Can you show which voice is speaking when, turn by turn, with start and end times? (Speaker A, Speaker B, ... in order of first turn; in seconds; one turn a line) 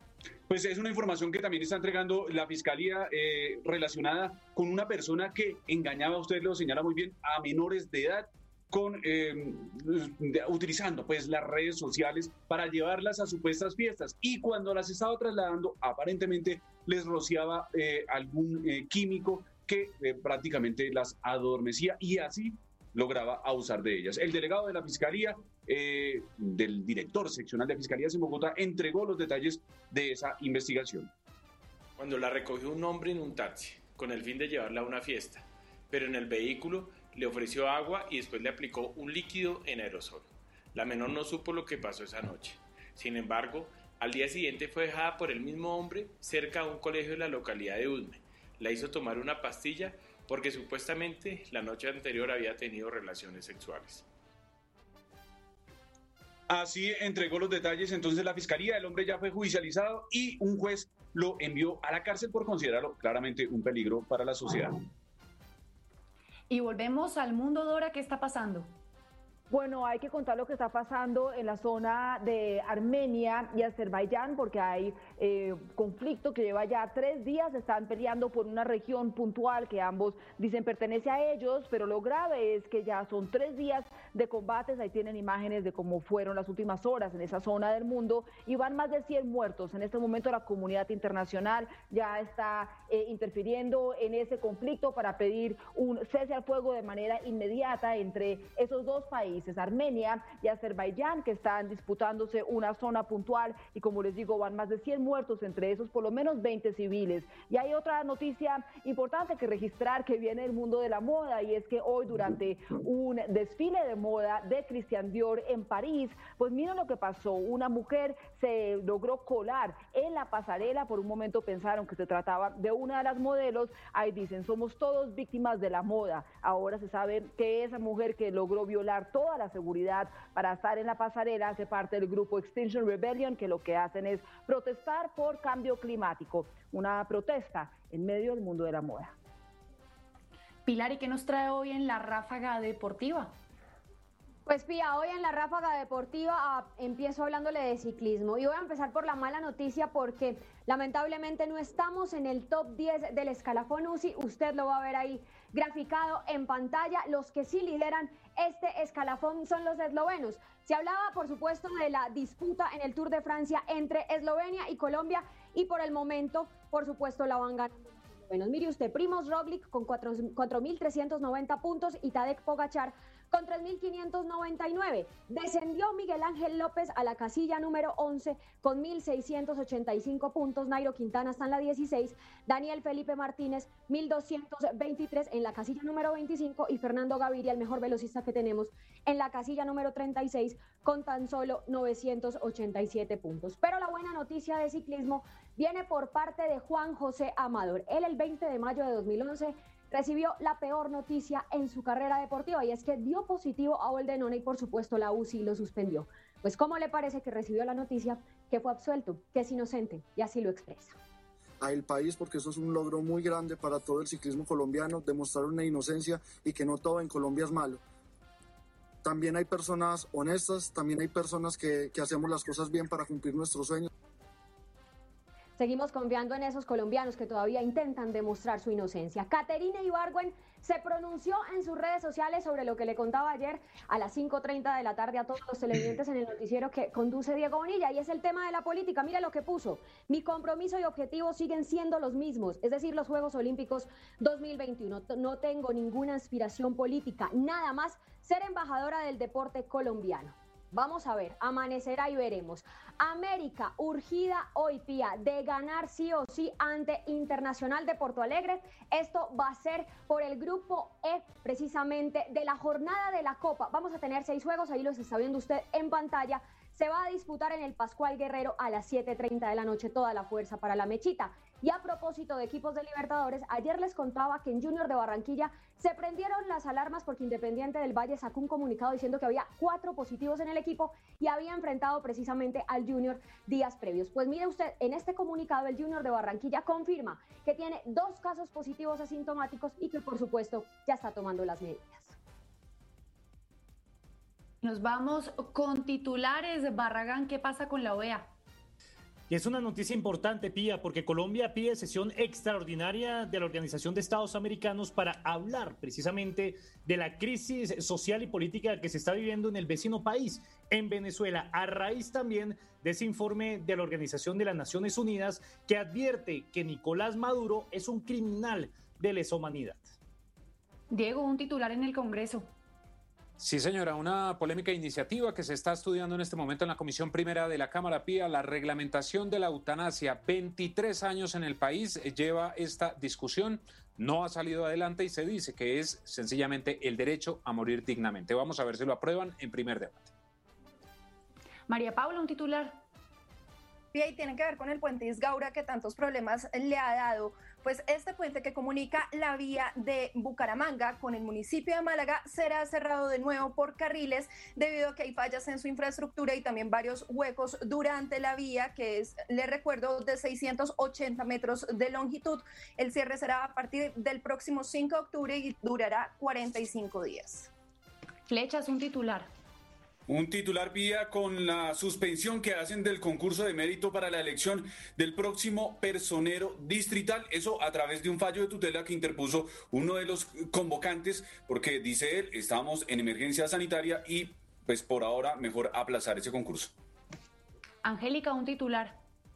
Speaker A: 0.5-31.1
Speaker B: 32.0-54.1
Speaker A: 56.5-64.8
Speaker C: 66.5-68.7
Speaker D: 69.5-139.2
Speaker C: 140.7-143.3
Speaker E: 144.5-211.0
Speaker F: 211.6-217.8
Speaker F: 219.0-223.9
Speaker E: 225.6-292.2
Speaker C: 294.6-298.3
Speaker G: 299.3-319.9
Speaker C: 320.9-322.5
Speaker H: 323.4-340.1
Speaker C: 341.7-342.8
Speaker I: 343.9-367.5
Speaker C: 368.3-369.3
Speaker A: 370.1-386.7
Speaker C: 387.8-389.0